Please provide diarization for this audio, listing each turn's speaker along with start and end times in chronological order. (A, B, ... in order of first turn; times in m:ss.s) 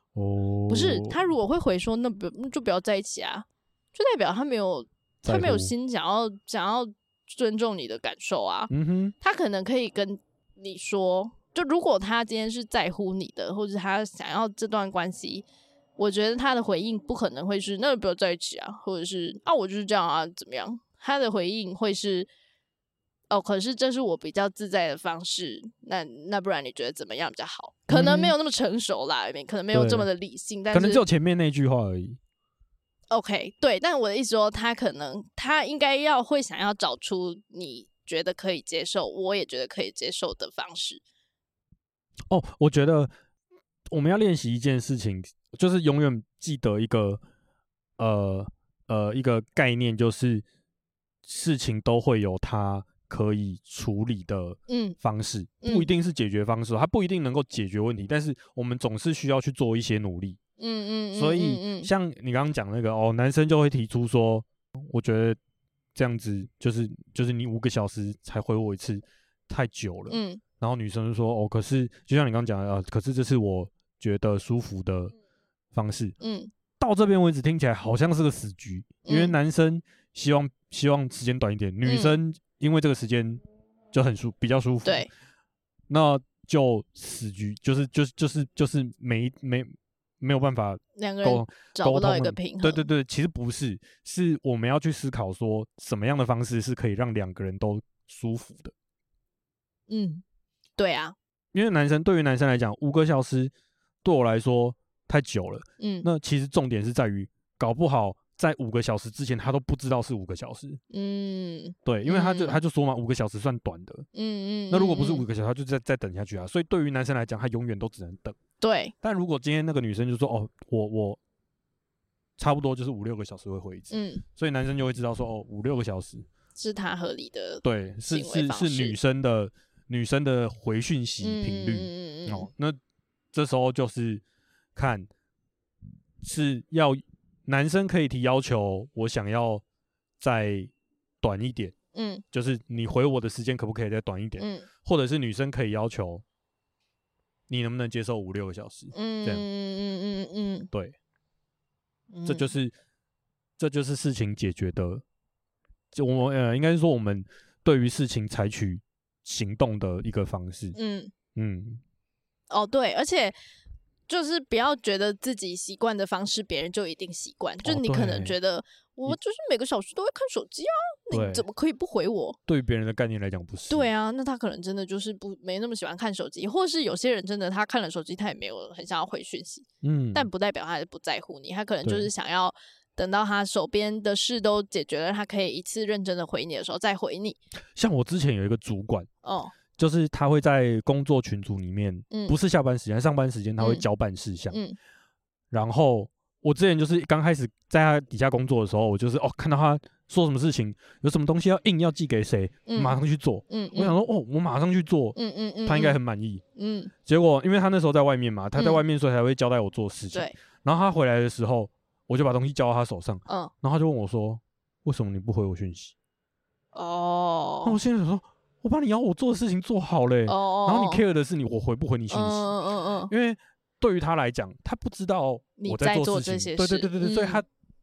0:00.1-0:01.2 A
0:00.7-0:15.4 B
0:05.2-0:05.7 A
0:08.7-0:09.1 A
0:16.0-0:22.3 B
0:23.3-0:31.0 B
0:27.9-0:28.3 A
0:29.7-0:30.1 A
0:30.7-0:32.2 A
0:33.1-0:41.0 B
0:42.3-0:43.1 A
0:43.9-0:47.2 A
0:48.0-0:50.4 A
0:51.2-1:00.4 A
0:54.7-0:55.0 B
0:55.6-0:55.9 B
1:00.6-1:01.9 B
1:01.1-1:05.4 A
1:05.9-1:15.1 A
1:10.1-1:10.4 B
1:15.7-1:16.1 A
1:16.2-1:16.5 B
1:16.8-1:25.1 A
1:19.0-1:19.4 B
1:21.8-1:22.2 B
1:24.8-1:25.1 B
1:25.9-1:38.7 A
1:31.0-1:32.9 B
1:39.9-1:40.2 B
1:40.8-1:41.2 B
1:41.5-1:43.5 A
1:44.0-1:50.8 A
1:45.8-1:46.1 B
1:50.9-1:52.6 B
1:51.8-1:54.0 A
1:54.1-1:55.2 B
1:54.7-1:58.4 A
1:58.6-1:58.9 B
1:59.0-2:01.2 A
2:02.4-2:06.2 A
2:03.9-2:04.2 B
2:06.6-2:09.0 B
2:07.6-2:12.8 A
2:11.2-2:12.5 B
2:13.3-2:14.2 A
2:14.8-2:15.1 A
2:16.2-2:19.6 A
2:20.2-2:20.7 A
2:21.2-2:21.7 A
2:21.9-2:22.2 B
2:22.3-2:26.2 A
2:24.4-2:24.7 B
2:27.5-2:29.4 A
2:28.9-2:30.7 B
2:32.1-2:32.5 B
2:32.2-2:32.7 A
2:33.6-2:35.0 A
2:35.9-2:40.8 A
2:40.7-2:41.1 B
2:41.4-2:41.8 A
2:42.5-2:43.3 B
2:44.1-2:52.4 B
2:47.6-2:48.3 A
2:51.1-2:51.4 A
2:52.5-2:53.9 A
2:53.7-3:07.4 B
2:59.8-3:00.3 A
3:01.8-3:02.1 A
3:07.8-3:09.1 A
3:09.2-3:09.5 B
3:09.8-3:14.6 A
3:12.1-3:12.3 B
3:14.5-3:14.8 B
3:15.5-3:26.4 A
3:22.7-3:23.0 B
3:23.5-3:24.0 B
3:25.2-3:26.0 B
3:26.6-3:26.9 B
3:27.0-3:35.9 A
3:28.6-3:28.8 B
3:36.7-3:37.8 B
3:37.6-3:42.5 A
3:40.2-3:41.0 B
3:42.1-3:43.1 B
3:43.1-3:47.4 A
3:45.6-3:47.4 B